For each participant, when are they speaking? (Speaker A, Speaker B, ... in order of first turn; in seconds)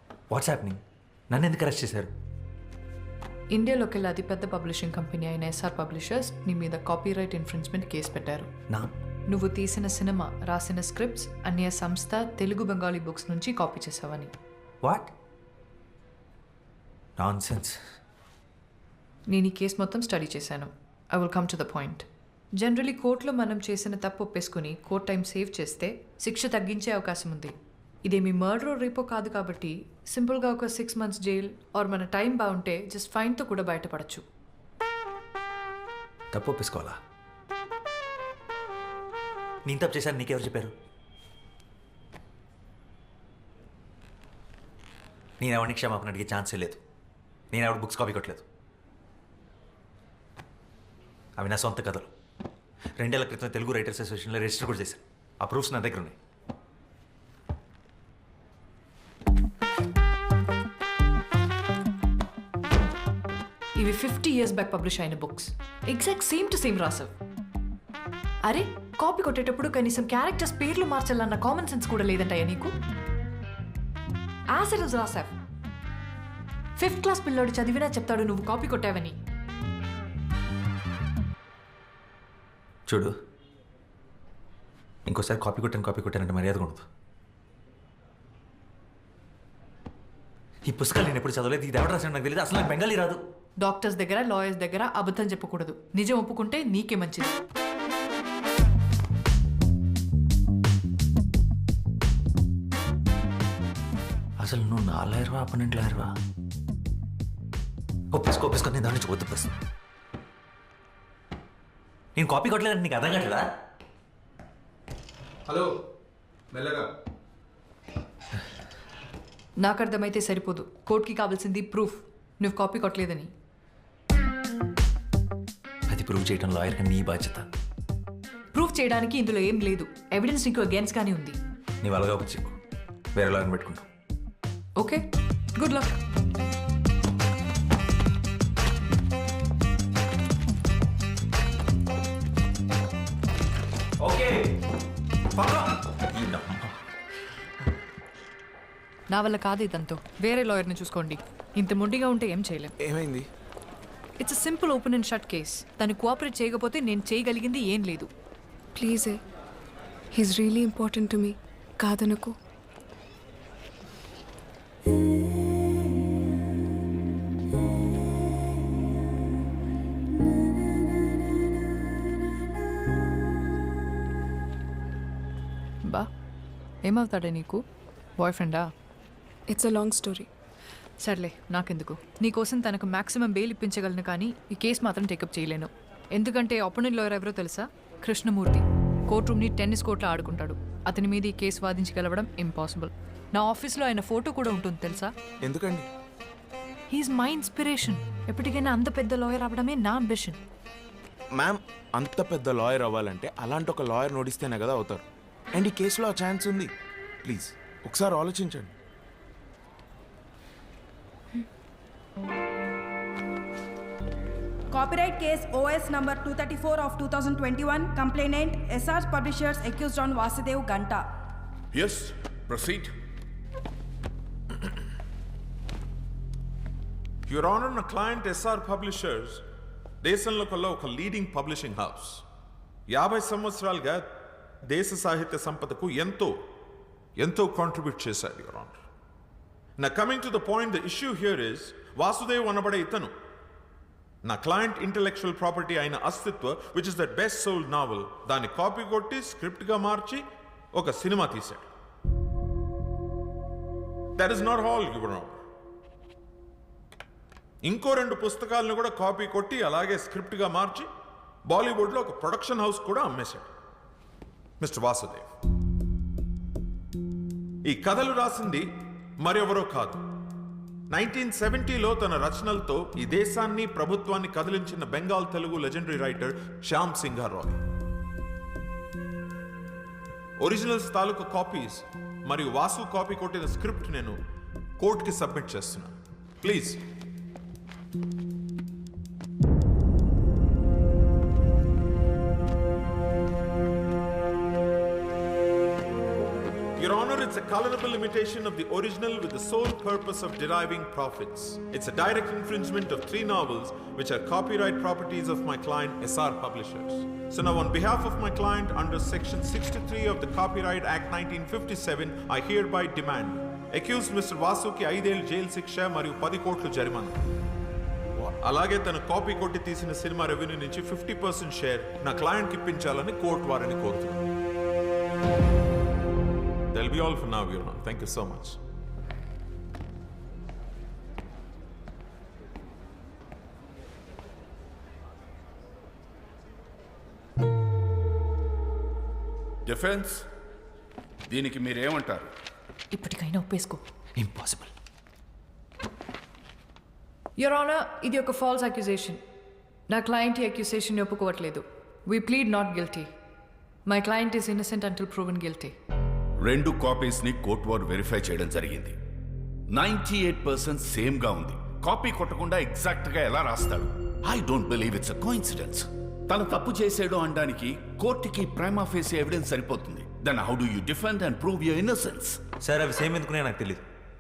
Speaker A: 0.3-0.8, 1.3-2.1, 14.8-15.1, 17.2-17.8, 36.3-37.0, 39.7-40.7, 45.4-46.8, 47.5-48.4, 51.4-52.1, 53.0-56.2, 82.9-83.1, 85.1-86.8, 90.7-93.2, 104.4-106.1, 108.1-109.5, 112.2-113.5, 125.9-127.5, 131.8-132.5, 133.2-133.9, 144.0-144.5, 145.3-146.7, 344.2-344.7, 372.6-373.8
Speaker B: 3.5-8.5, 9.3-14.3, 19.3-22.0, 22.6-27.5, 28.1-34.2, 63.8-67.1, 68.5-72.7, 74.5-75.3, 76.8-79.2, 93.6-97.3, 119.6-123.3, 128.5-131.4, 134.8-135.0, 135.6-135.9, 149.1-152.7, 154.2-158.1, 176.8-177.6, 178.2-178.7, 181.0-195.1, 196.9-200.4, 342.9-343.8, 347.4-349.2, 349.9-353.1, 353.9-355.7
Speaker C: 116.5-116.8, 152.8-153.2, 195.4-195.9, 201.3-205.0, 205.5-206.7, 207.2-208.7
Speaker D: 158.8-159.2, 160.2-162.3, 179.5-180.3
Speaker E: 214.7-221.0
Speaker F: 221.7-222.9, 339.6-340.3, 341.3-342.3, 356.4-358.9, 359.7-372.4
Speaker G: 227.3-229.4, 230.0-232.2, 232.9-234.1, 234.7-236.4, 237.2-238.8, 239.8-243.1, 244.2-251.7, 254.2-255.4, 257.6-260.9, 261.5-263.5, 264.6-265.3, 267.6-268.7, 269.2-270.0, 270.9-277.6, 280.4-284.2, 284.8-286.8, 296.8-317.2, 318.2-324.3, 326.7-328.6